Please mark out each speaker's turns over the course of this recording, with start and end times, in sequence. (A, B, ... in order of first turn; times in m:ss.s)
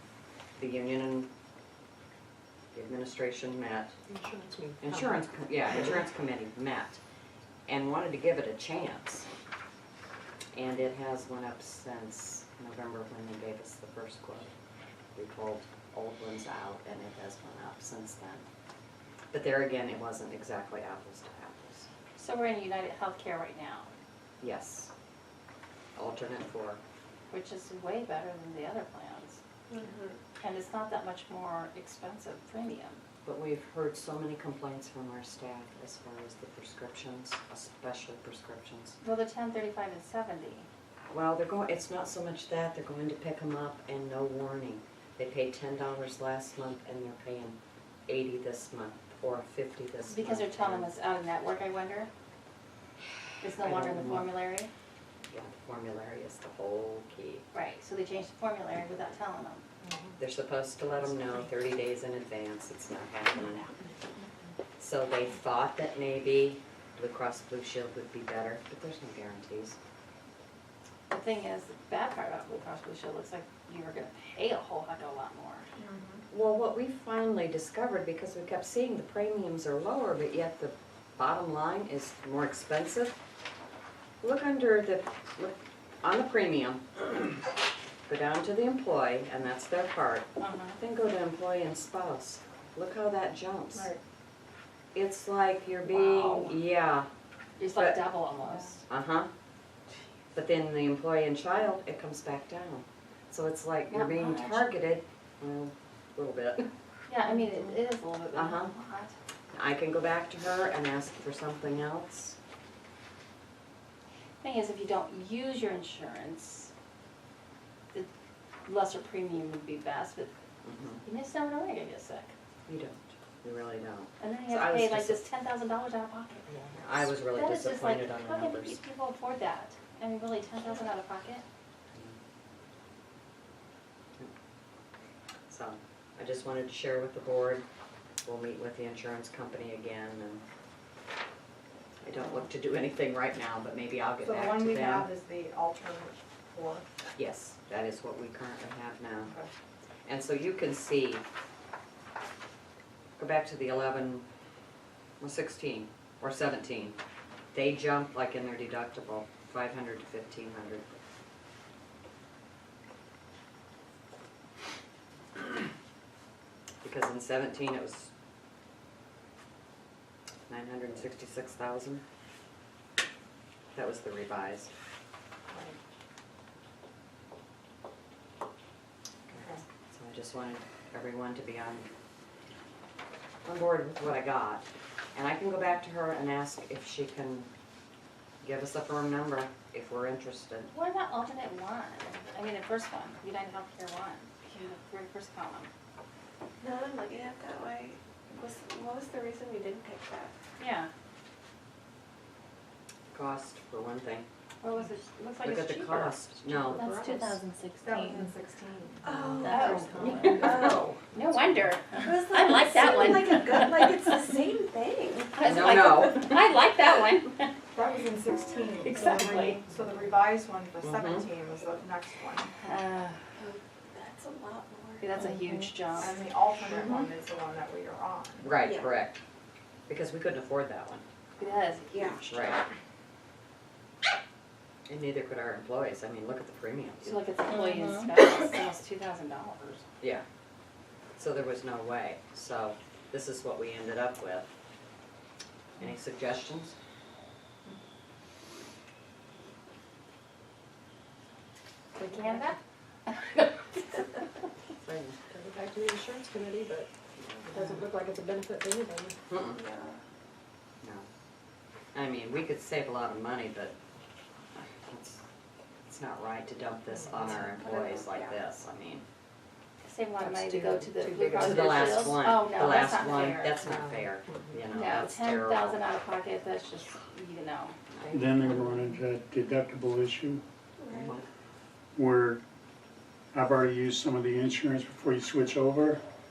0:00.6-0:01.3 A
0:02.7-0:03.9 A
0:04.1-0:04.8 B
0:04.8-0:07.0 A
0:07.7-0:09.3 A
0:10.5-0:14.5 A
0:15.2-0:18.4 A
0:19.3-0:21.9 A
0:22.2-0:23.9 C
0:24.4-0:24.9 A
0:26.0-0:26.8 A
0:27.3-0:29.4 C
0:29.7-0:30.2 B
0:30.4-0:33.0 C
0:33.2-0:39.0 A
0:39.0-0:40.7 C
0:41.1-0:50.9 A
0:50.1-0:52.1 C
0:53.4-0:54.7 C
0:53.6-0:54.3 A
0:55.3-0:57.4 A
0:57.5-0:59.6 C
1:00.2-1:03.7 A
1:04.8-1:09.8 A
1:11.1-1:15.7 C
1:15.8-1:16.2 D
1:16.3-1:23.1 A
1:24.2-1:27.4 A
1:28.1-1:33.9 A
1:30.4-1:30.8 C
1:33.7-1:34.0 D
1:34.9-1:37.1 A
1:35.8-1:36.5 C
1:37.6-1:38.8 C
1:37.7-1:38.0 A
1:38.9-1:39.3 A
1:40.3-1:46.7 A
1:43.9-1:44.7 C
1:47.1-1:49.1 C
1:48.3-1:48.7 A
1:49.5-1:52.4 A
1:54.4-1:56.7 C
1:58.6-2:00.3 C
2:00.6-2:01.0 A
2:01.0-2:02.3 C
2:02.7-2:05.2 A
2:04.2-2:06.5 C
2:06.8-2:08.8 A
2:07.2-2:11.4 C
2:11.9-2:12.2 A
2:15.5-2:17.6 A
2:18.2-2:20.4 A
2:22.0-2:25.1 A
2:24.2-2:26.9 D
2:27.2-2:29.3 A
2:30.0-2:31.2 A
2:33.2-2:34.2 A
2:35.2-2:37.0 A
2:37.5-2:40.8 A
2:46.8-2:48.1 A
2:50.5-2:52.0 A
2:53.7-2:54.7 A
2:55.5-2:55.8 D
2:59.3-3:01.9 A
2:59.3-2:59.6 D
3:03.4-3:07.5 A
3:08.4-3:10.7 A
3:10.7-3:15.7 C
3:16.6-3:20.3 B
3:20.6-3:20.9 C
3:23.1-3:24.3 A
3:24.6-3:26.2 C
3:25.4-3:26.8 A
3:26.5-3:27.4 B
3:26.7-3:28.3 C
3:27.8-3:30.9 D
3:29.0-3:31.0 B
3:29.4-3:34.1 C
3:32.0-3:36.2 B
3:35.3-3:37.5 C
3:35.4-3:36.4 A
3:37.7-3:42.5 D
3:38.8-3:39.6 C
3:40.8-3:41.3 A
3:42.6-3:43.2 C
3:43.4-3:45.2 B
3:45.0-3:46.1 C
3:45.9-3:48.5 D
3:48.4-3:49.2 A
3:48.5-3:48.9 B
3:49.9-3:51.0 A
3:51.4-3:52.1 C
3:51.9-3:52.2 B
3:52.0-3:52.6 A
3:54.9-3:57.2 A
3:57.0-3:59.8 C
4:01.2-4:04.5 A
4:05.8-4:06.7 A
4:12.0-4:13.8 C
4:14.8-4:15.2 A
4:15.3-4:16.9 E
4:17.2-4:17.6 A
4:17.5-4:17.8 B
4:17.6-4:19.1 E
4:19.3-4:19.6 A
4:19.5-4:20.0 B
4:20.8-4:21.1 A
4:21.9-4:23.7 A
4:24.5-4:25.2 A
4:25.8-4:29.0 A
4:27.5-4:28.3 B
4:29.8-4:33.6 C
4:30.3-4:31.9 B
4:31.4-4:35.8 A
4:34.7-4:37.8 C
4:37.9-4:38.4 A
4:38.1-4:40.4 F
4:40.8-4:41.2 B
4:40.9-4:41.3 A
4:41.9-4:42.4 F
4:43.3-4:46.0 F